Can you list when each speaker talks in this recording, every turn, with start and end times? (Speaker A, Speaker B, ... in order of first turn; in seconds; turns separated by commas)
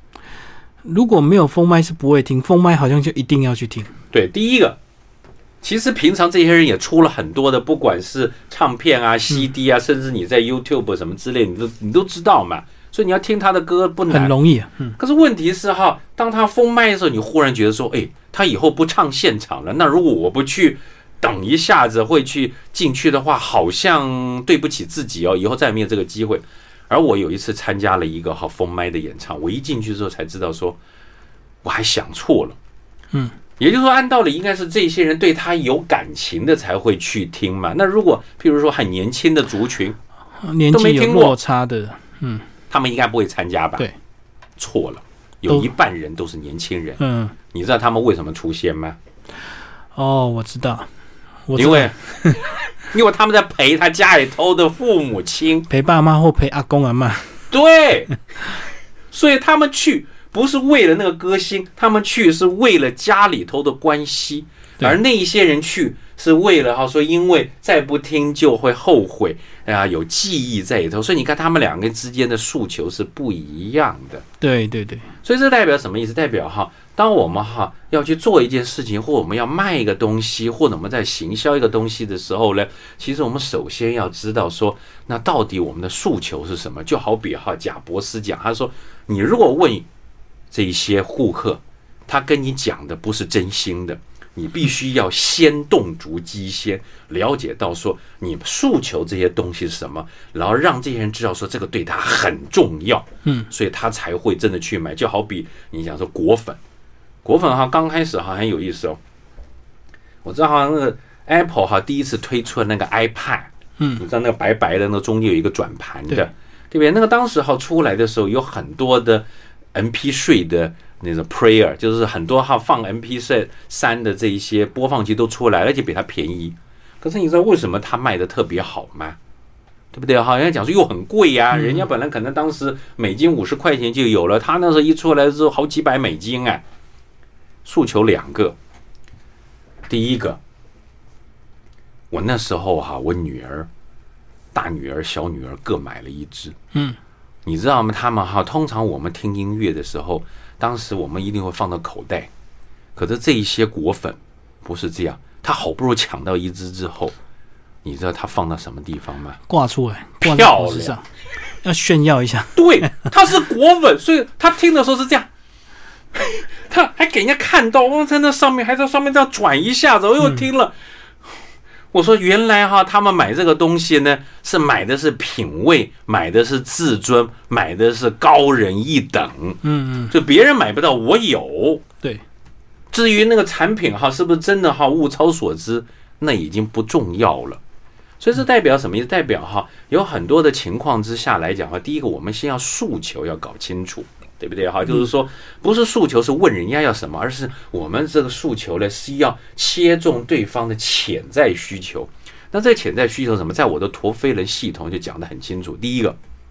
Speaker A: 0.8-3.9, Speaker B: 4.1-4.8, Speaker B: 5.6-14.3, Speaker A: 14.1-14.9, Speaker B: 15.0-30.8, Speaker B: 31.6-32.6, Speaker B: 33.6-40.0, Speaker A: 40.4-42.5, Speaker B: 40.7-41.4, Speaker B: 42.7-43.9, Speaker B: 44.6-47.0, Speaker A: 47.0-47.4, Speaker B: 47.5-49.0, Speaker A: 50.0-50.9, Speaker A: 51.5-52.4, Speaker B: 51.6-51.9, Speaker B: 52.9-55.7, Speaker A: 55.7-57.4, Speaker B: 57.5-58.1, Speaker B: 59.1-74.2, Speaker A: 74.4-75.1, Speaker B: 75.2-89.9, Speaker B: 90.5-106.6, Speaker B: 107.2-109.0, Speaker B: 110.2-129.2, Speaker B: 129.9-136.6, Speaker A: 131.5-131.9, Speaker B: 137.7-138.6, Speaker B: 139.9-140.4, Speaker B: 142.1-143.7, Speaker B: 144.5-146.6, Speaker B: 147.5-152.3, Speaker B: 153.0-157.2, Speaker B: 157.8-159.4, Speaker A: 159.5-161.1, Speaker B: 160.2-161.0, Speaker A: 161.6-163.1, Speaker B: 162.6-165.3, Speaker B: 166.1-170.7, Speaker B: 171.9-181.8, Speaker A: 179.6-180.1, Speaker B: 182.9-187.6, Speaker B: 188.2-206.2